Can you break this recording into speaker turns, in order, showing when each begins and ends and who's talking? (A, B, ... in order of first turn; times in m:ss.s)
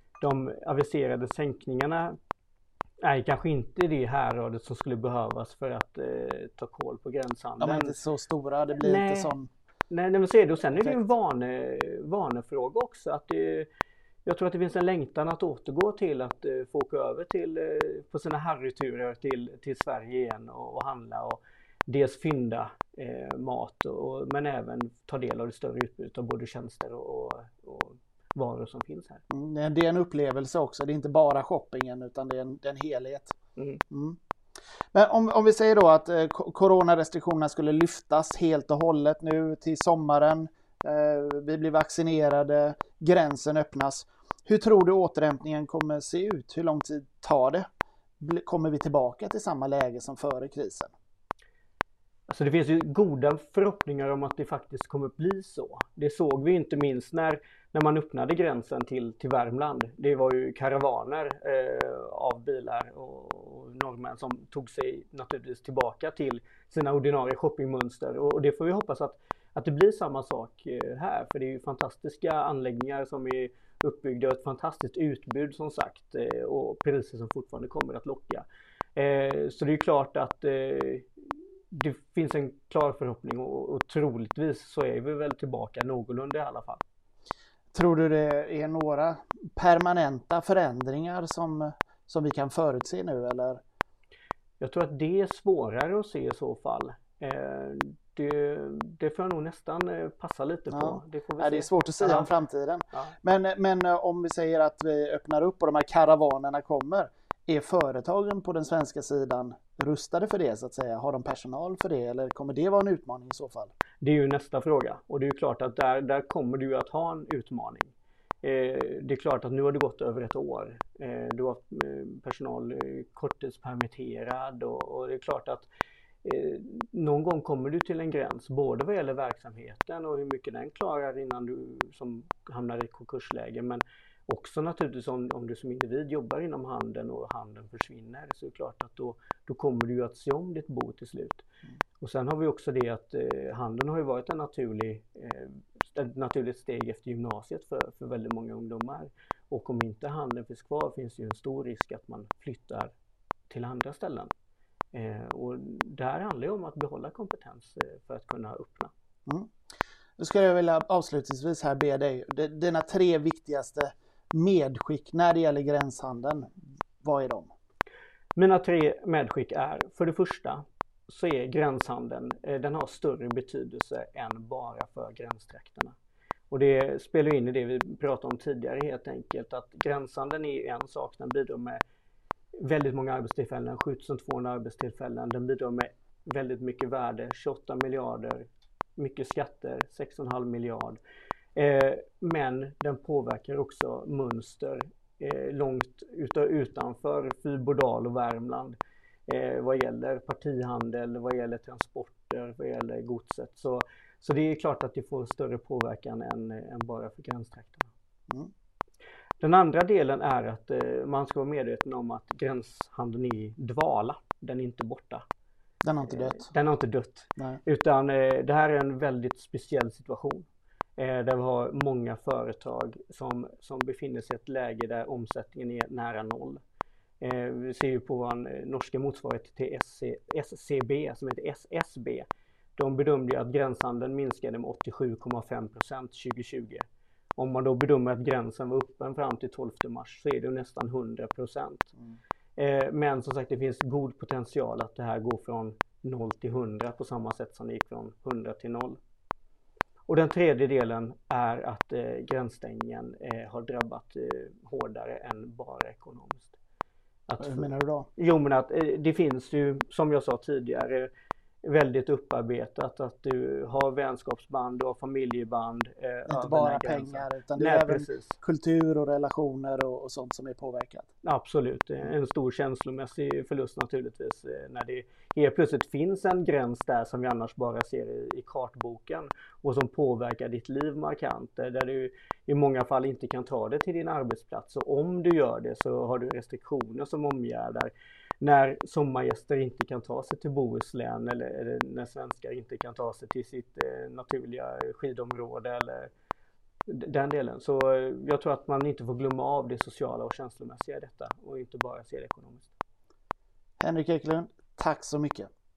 0:00.2-0:02.1 A
0:03.0-0:08.0 A
0:07.6-0:09.5 B
0:08.8-0:09.3 A
0:09.9-0:13.7 A
0:14.2-0:29.2 A
0:29.3-0:33.3 B
0:33.9-0:34.2 B
0:34.9-0:47.6 B
0:48.2-0:50.9 B
0:52.3-1:21.1 A
1:21.7-1:26.8 A
1:27.7-1:33.6 B
1:34.6-1:42.3 A
1:40.7-1:53.7 B
1:54.0-2:05.7 A
2:06.2-2:21.4 A
2:22.0-2:32.9 A
2:33.5-2:34.3 A
2:34.9-2:38.9 A
2:40.2-2:47.5 B
2:48.3-2:55.9 A
2:56.5-3:01.8 A
3:02.6-3:11.0 A
3:11.6-3:18.8 A
3:19.3-3:27.9 A
3:29.4-3:35.2 A
3:35.8-3:36.5 B
3:36.0-3:46.6 A
3:47.2-3:52.2 A
3:52.8-3:56.8 A
3:57.4-4:01.9 A
4:02.6-4:09.0 A
4:10.1-4:16.6 A
4:17.3-4:21.1 A
4:17.4-4:18.1 B
4:21.6-4:28.4 A
4:26.3-4:31.0 B
4:31.2-4:56.1 A
4:56.9-5:02.7 A
5:03.8-5:05.5 B